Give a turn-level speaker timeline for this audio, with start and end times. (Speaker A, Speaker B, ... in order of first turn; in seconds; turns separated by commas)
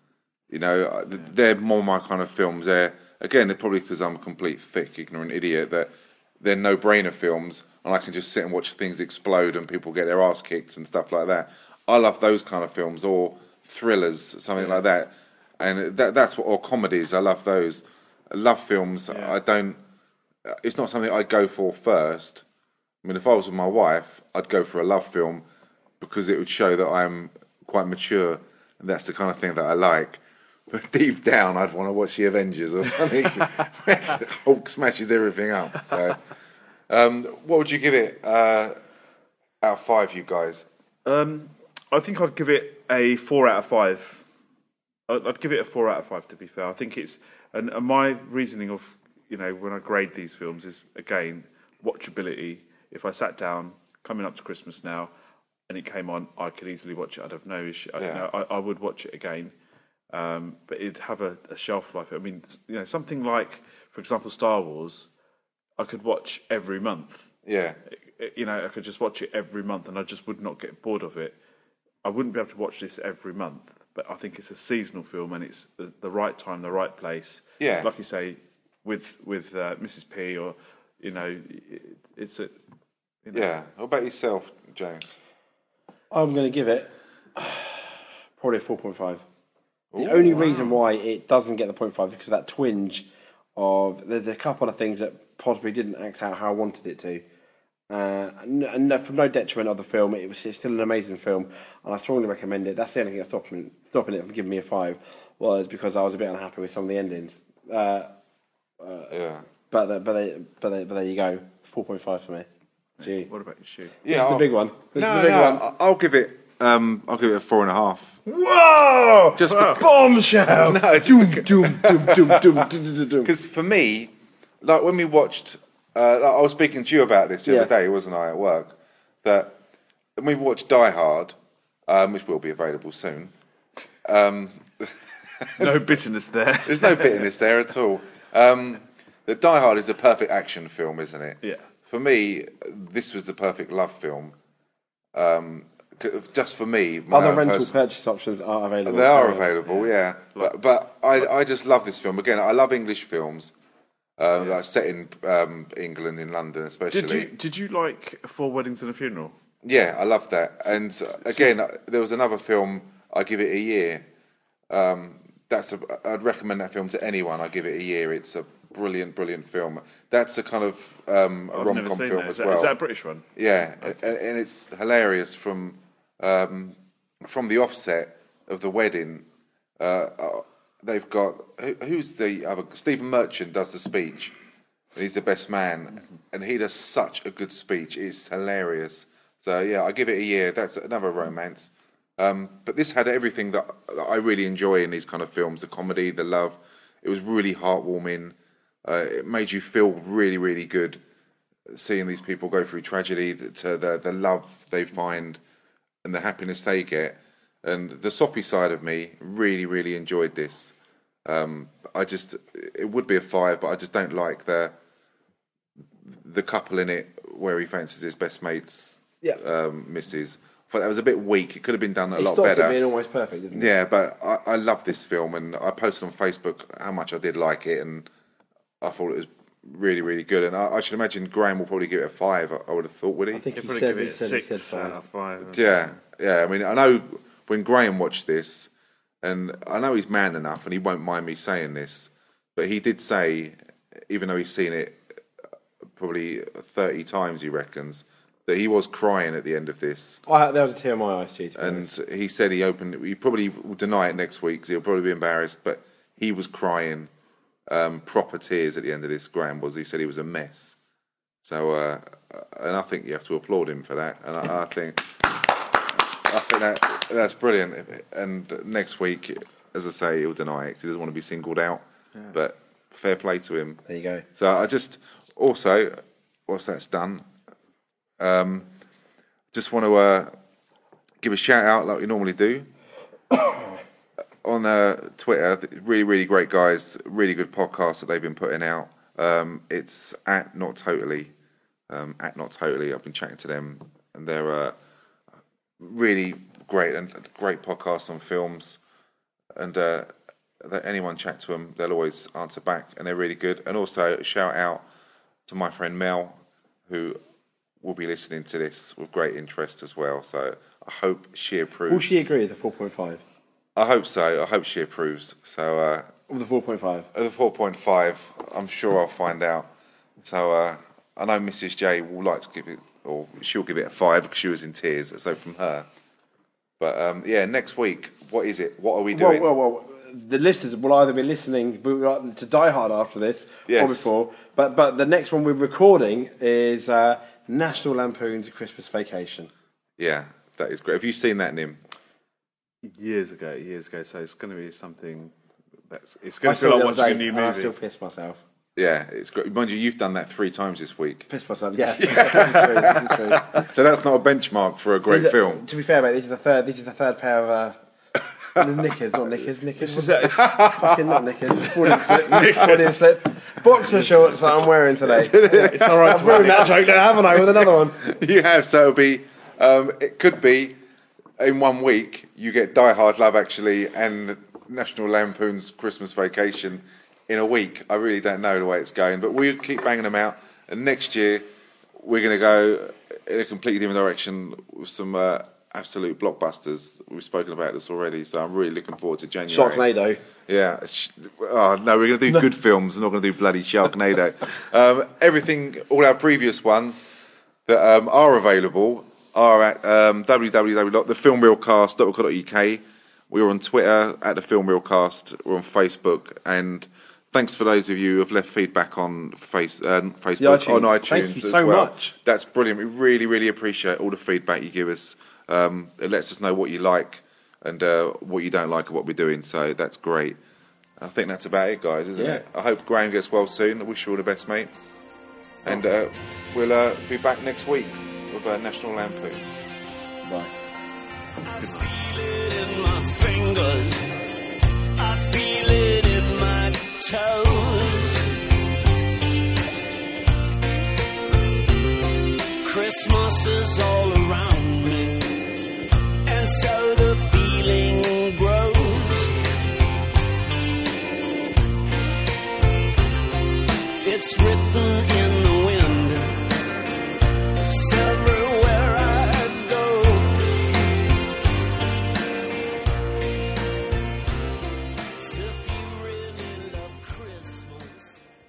Speaker A: 0.5-19.8, Speaker B: 14.6-14.8, Speaker B: 19.1-19.4, Speaker A: 20.5-22.4, Speaker A: 23.0-25.4, Speaker A: 26.0-36.2, Speaker A: 36.9-38.8, Speaker A: 39.6-40.7, Speaker B: 41.0-44.2, Speaker B: 45.1-55.1, Speaker B: 55.7-59.5, Speaker A: 58.0-58.2, Speaker B: 60.1-65.1, Speaker B: 65.8-67.3, Speaker A: 67.5-67.8, Speaker B: 67.9-71.4, Speaker B: 72.0-82.6, Speaker A: 77.6-77.9, Speaker B: 83.2-83.5, Speaker A: 83.3-85.2, Speaker C: 86.1-89.2, Speaker A: 89.9-90.8, Speaker C: 90.0-97.2, Speaker B: 90.0-90.7, Speaker C: 97.9-108.1, Speaker C: 108.8-109.1, Speaker A: 109.1-109.5, Speaker C: 109.7-112.5, Speaker B: 113.0-114.0, Speaker C: 113.0-113.3, Speaker A: 114.0-118.2, Speaker C: 114.1-115.6, Speaker C: 118.3-123.3, Speaker A: 119.4-119.9, Speaker B: 119.4-119.8, Speaker A: 120.5-122.7, Speaker A: 123.2-129.6, Speaker C: 127.5-127.7, Speaker A: 130.2-131.3, Speaker A: 131.9-133.3, Speaker A: 134.1-135.8, Speaker B: 135.6-137.3, Speaker A: 136.7-144.3, Speaker B: 141.4-141.7, Speaker A: 145.1-147.7, Speaker C: 147.1-149.5, Speaker A: 148.8-153.5, Speaker B: 149.2-150.6, Speaker A: 154.2-157.3, Speaker B: 156.9-159.4, Speaker A: 159.6-164.0, Speaker B: 160.7-161.6, Speaker A: 164.7-172.7, Speaker B: 171.5-173.3, Speaker A: 173.4-179.3, Speaker A: 179.8-184.3, Speaker A: 184.9-201.0, Speaker A: 201.7-205.4, Speaker A: 206.0-210.7, Speaker A: 211.3-214.8, Speaker A: 216.1-222.8, Speaker C: 222.2-223.7, Speaker A: 223.5-228.1, Speaker A: 228.8-233.4, Speaker C: 233.3-235.0, Speaker B: 233.6-236.0, Speaker A: 235.4-238.7, Speaker A: 239.2-243.6, Speaker A: 244.1-245.0, Speaker A: 246.0-250.2, Speaker C: 250.3-251.9, Speaker A: 251.6-257.1, Speaker A: 257.7-260.8, Speaker A: 261.4-265.4, Speaker A: 266.3-273.8, Speaker C: 273.9-274.2, Speaker A: 274.4-277.3, Speaker A: 278.2-278.7, Speaker A: 279.5-280.3, Speaker A: 281.2-282.7, Speaker C: 283.3-283.8, Speaker A: 284.4-291.3, Speaker A: 291.9-294.8, Speaker A: 295.8-298.8, Speaker A: 299.6-300.1, Speaker A: 300.6-304.8, Speaker A: 305.5-307.2, Speaker A: 307.8-312.3, Speaker C: 311.9-313.2, Speaker A: 313.8-316.1, Speaker C: 316.3-317.1, Speaker A: 317.1-319.7, Speaker A: 320.2-325.9, Speaker A: 326.8-329.5, Speaker C: 329.1-339.5, Speaker A: 333.7-334.1, Speaker A: 340.0-341.8, Speaker B: 342.8-345.3, Speaker B: 345.9-347.8, Speaker C: 346.4-348.4, Speaker A: 348.8-351.3, Speaker C: 351.3-353.6, Speaker A: 352.0-355.6, Speaker C: 355.1-357.8, Speaker C: 358.6-368.0, Speaker B: 359.8-360.6, Speaker A: 360.4-361.1, Speaker B: 361.9-363.0, Speaker A: 362.0-362.7, Speaker A: 365.1-370.8, Speaker B: 365.4-367.1, Speaker A: 371.4-381.4, Speaker A: 382.0-389.8, Speaker C: 389.5-390.2, Speaker A: 390.5-397.0, Speaker A: 397.7-420.4, Speaker C: 410.4-412.1, Speaker A: 421.0-424.7, Speaker C: 422.2-422.4, Speaker A: 425.6-429.6, Speaker C: 430.2-430.5, Speaker D: 431.4-434.1, Speaker D: 435.0-438.4, Speaker D: 442.6-445.5, Speaker D: 446.3-449.3, Speaker D: 454.0-456.4, Speaker D: 457.6-460.4, Speaker D: 465.0-468.2